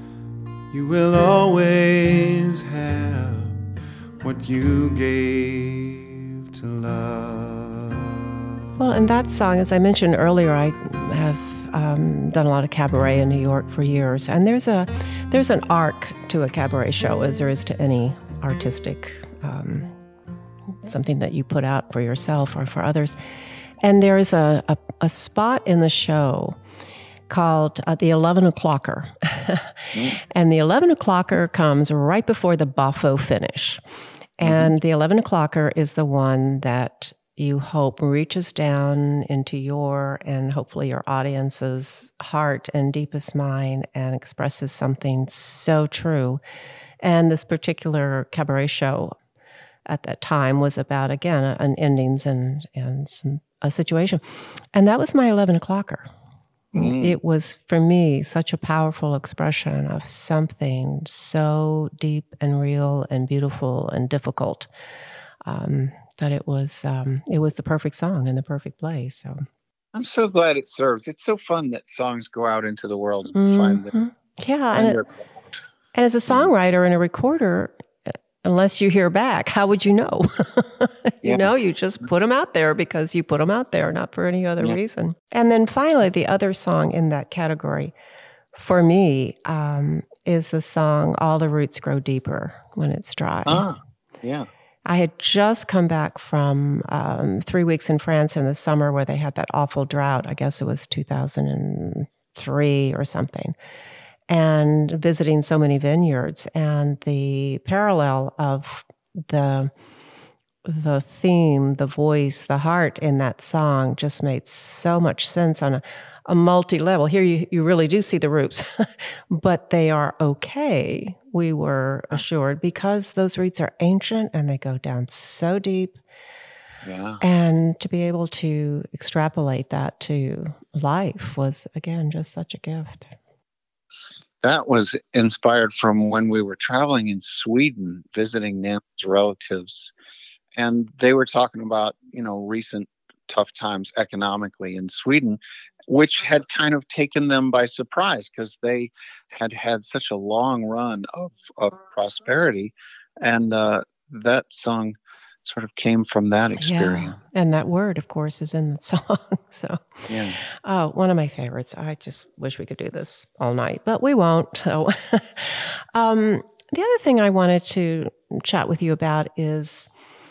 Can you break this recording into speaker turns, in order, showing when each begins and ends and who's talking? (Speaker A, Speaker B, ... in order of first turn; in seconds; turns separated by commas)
Speaker A: 0.7-3.6, Speaker A: 4.2-8.3, Speaker B: 8.8-19.9, Speaker B: 20.8-23.1, Speaker B: 23.8-26.6, Speaker B: 27.3-33.8, Speaker C: 29.9-30.2, Speaker B: 34.4-46.4, Speaker C: 34.4-34.7, Speaker B: 47.0-49.2, Speaker B: 49.9-54.2, Speaker B: 54.7-56.1, Speaker C: 56.7-57.2, Speaker B: 56.8-64.7, Speaker B: 65.5-69.5, Speaker C: 69.9-73.9, Speaker B: 73.3-75.0, Speaker C: 74.7-75.3, Speaker B: 76.0-87.9, Speaker C: 81.2-81.5, Speaker B: 88.5-93.7, Speaker C: 93.5-94.5, Speaker B: 94.9-103.5, Speaker B: 104.3-109.7, Speaker B: 110.7-126.0, Speaker C: 126.8-127.2, Speaker B: 127.2-133.1, Speaker C: 134.4-139.9, Speaker C: 140.6-157.2, Speaker B: 156.6-160.1, Speaker C: 160.1-160.4, Speaker B: 160.6-169.9